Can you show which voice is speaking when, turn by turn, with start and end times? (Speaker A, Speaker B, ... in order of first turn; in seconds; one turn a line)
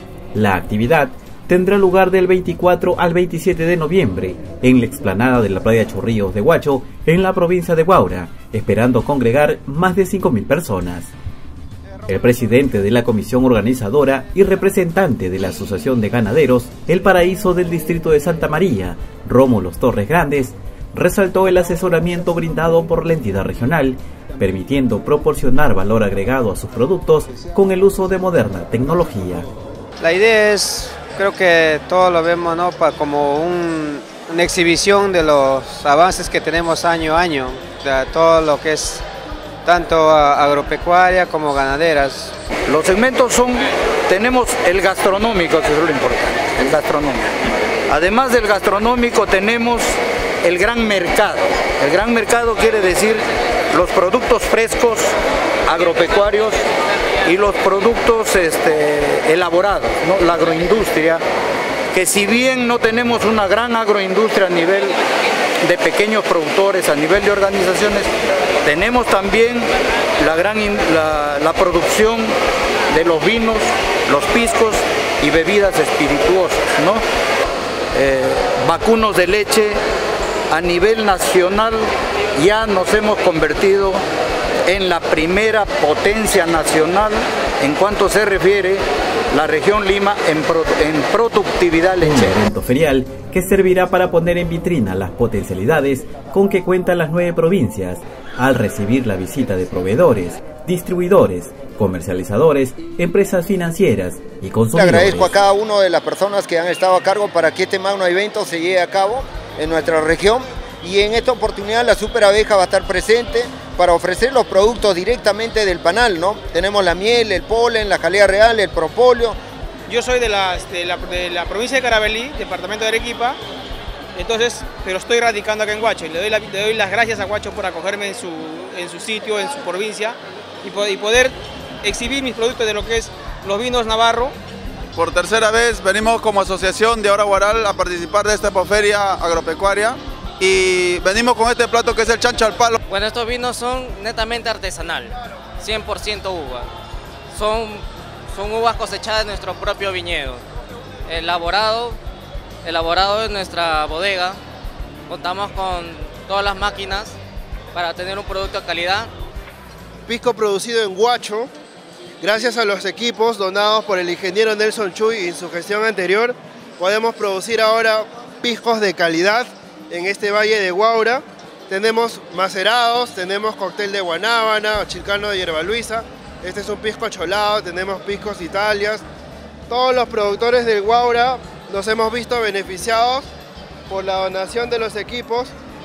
Speaker A: 0.3-11.1
Speaker A: 12.1-29.5
Speaker B: 30.0-39.0
Speaker B: 39.6-42.3
Speaker C: 42.7-47.3
Speaker C: 47.9-55.1
Speaker C: 55.7-56.6
Speaker C: 57.2-61.2
Speaker C: 61.9-65.0
Speaker C: 65.6-68.1
Speaker C: 68.6-72.3
Speaker C: 72.9-77.0
Speaker C: 77.9-79.8
Speaker C: 80.5-81.8
Speaker C: 82.4-84.0
Speaker C: 84.7-92.3
Speaker A: 92.0-105.4
Speaker D: 104.7-119.4
Speaker E: 120.0-123.3
Speaker E: 124.2-130.1
Speaker E: 130.7-131.3
Speaker E: 131.9-134.3
Speaker F: 135.0-142.8
Speaker G: 142.9-146.7
Speaker G: 147.3-150.4
Speaker G: 151.1-152.0
Speaker G: 152.6-154.4
Speaker G: 155.1-157.2
Speaker G: 157.8-159.1
Speaker H: 160.1-161.5
Speaker H: 162.2-179.0
Speaker H: 179.7-183.3
Speaker H: 183.9-185.5